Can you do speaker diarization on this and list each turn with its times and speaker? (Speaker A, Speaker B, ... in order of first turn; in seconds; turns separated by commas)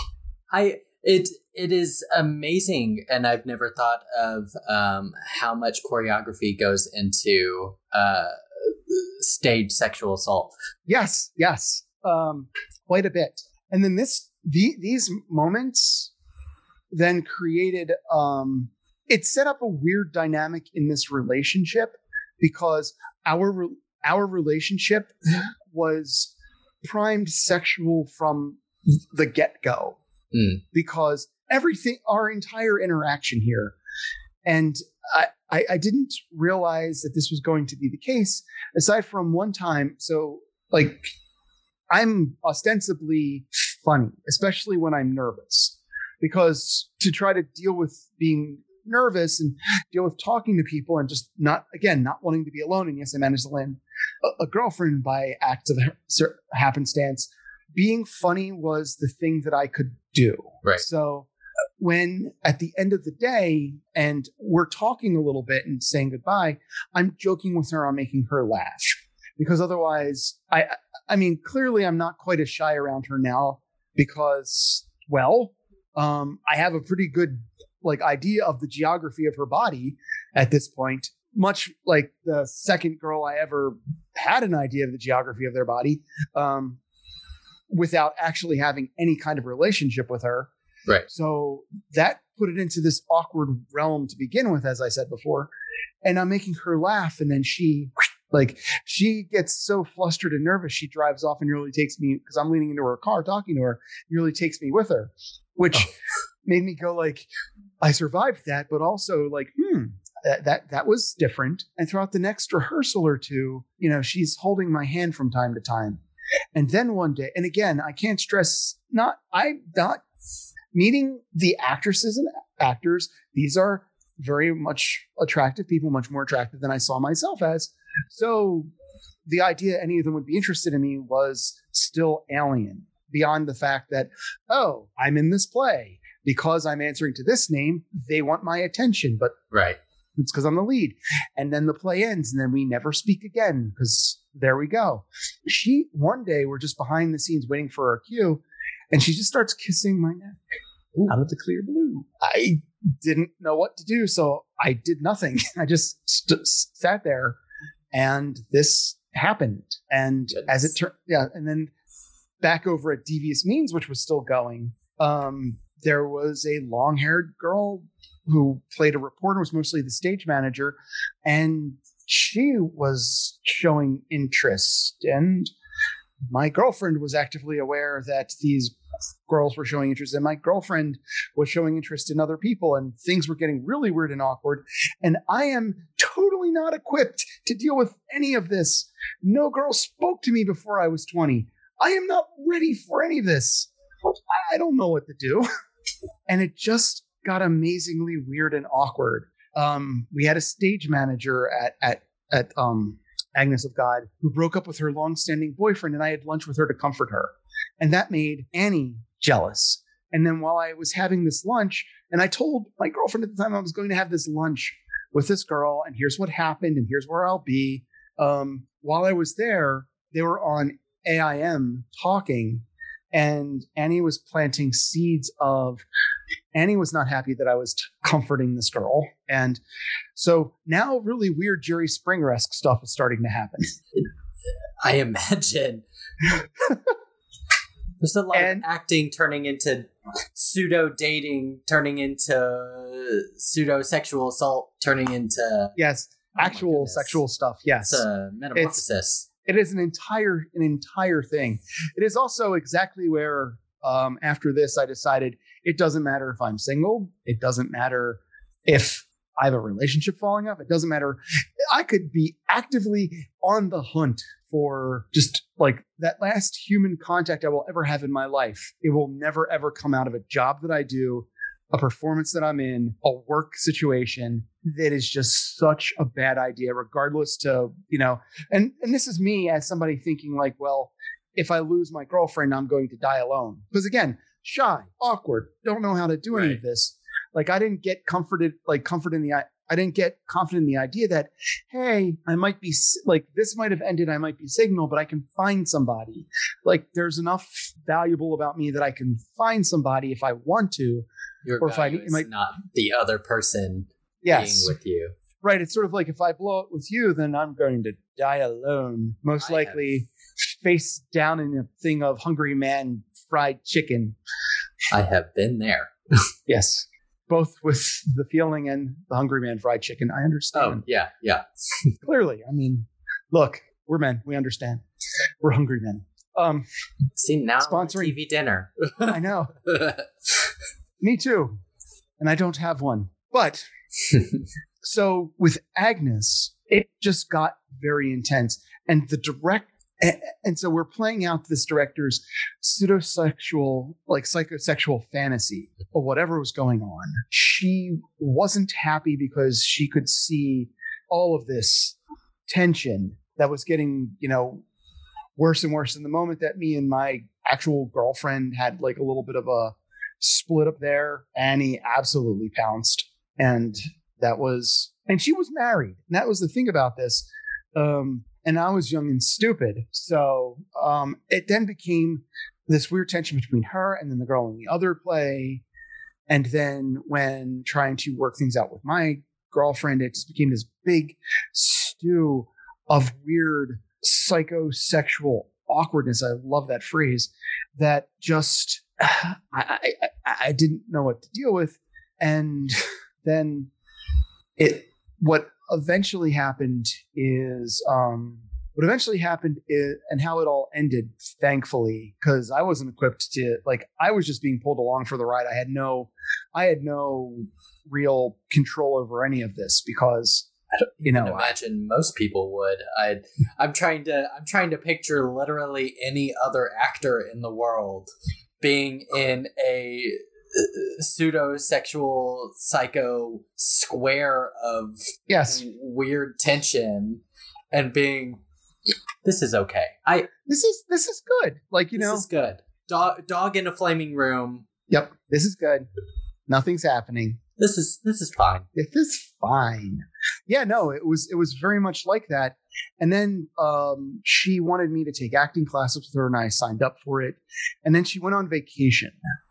Speaker A: 0.5-8.3, Speaker A: 8.9-10.5, Speaker B: 10.9-16.1, Speaker B: 16.9-26.3, Speaker B: 26.8-28.6, Speaker B: 29.1-30.0, Speaker A: 30.3-30.6, Speaker B: 30.7-33.7, Speaker B: 34.4-41.1, Speaker B: 41.9-61.3, Speaker B: 61.8-86.8, Speaker B: 87.7-90.5, Speaker B: 91.1-95.5, Speaker B: 96.0-105.9, Speaker B: 106.4-107.3, Speaker B: 107.8-116.0, Speaker B: 116.5-120.0, Speaker B: 120.7-128.7, Speaker B: 129.3-139.3, Speaker A: 139.5-139.8, Speaker B: 140.2-148.4, Speaker B: 148.9-150.4, Speaker B: 151.1-157.4, Speaker B: 157.9-161.7, Speaker A: 160.3-160.7, Speaker B: 162.4-175.5, Speaker B: 176.3-178.7, Speaker B: 179.3-193.7, Speaker B: 194.3-195.4, Speaker B: 196.3-225.8, Speaker B: 226.5-229.6, Speaker B: 230.2-233.7, Speaker A: 234.8-235.8, Speaker A: 238.0-245.7, Speaker B: 238.3-238.6, Speaker B: 245.8-248.0, Speaker A: 246.4-247.2, Speaker A: 247.8-249.2, Speaker B: 249.4-261.2, Speaker B: 261.7-301.0, Speaker A: 286.3-286.6, Speaker A: 301.4-305.1, Speaker B: 301.6-302.3, Speaker B: 304.2-304.7, Speaker B: 305.4-310.1, Speaker A: 309.4-309.8, Speaker B: 310.6-314.1, Speaker A: 314.9-316.2, Speaker B: 316.5-320.8, Speaker A: 320.5-321.9, Speaker B: 322.0-324.8, Speaker B: 325.4-326.6, Speaker A: 327.1-330.5, Speaker B: 327.6-328.1, Speaker B: 329.0-329.6, Speaker B: 331.0-331.5, Speaker B: 332.2-333.6, Speaker B: 334.8-351.9, Speaker B: 352.5-354.6, Speaker B: 355.4-375.6, Speaker B: 376.3-393.7, Speaker B: 394.6-410.5, Speaker A: 411.0-418.1, Speaker B: 411.0-411.5, Speaker A: 418.6-428.4, Speaker B: 425.3-425.6, Speaker A: 429.2-430.3, Speaker B: 430.5-432.2, Speaker A: 431.9-434.6, Speaker B: 434.9-435.9, Speaker B: 436.5-437.4, Speaker A: 437.6-438.7, Speaker B: 438.7-449.2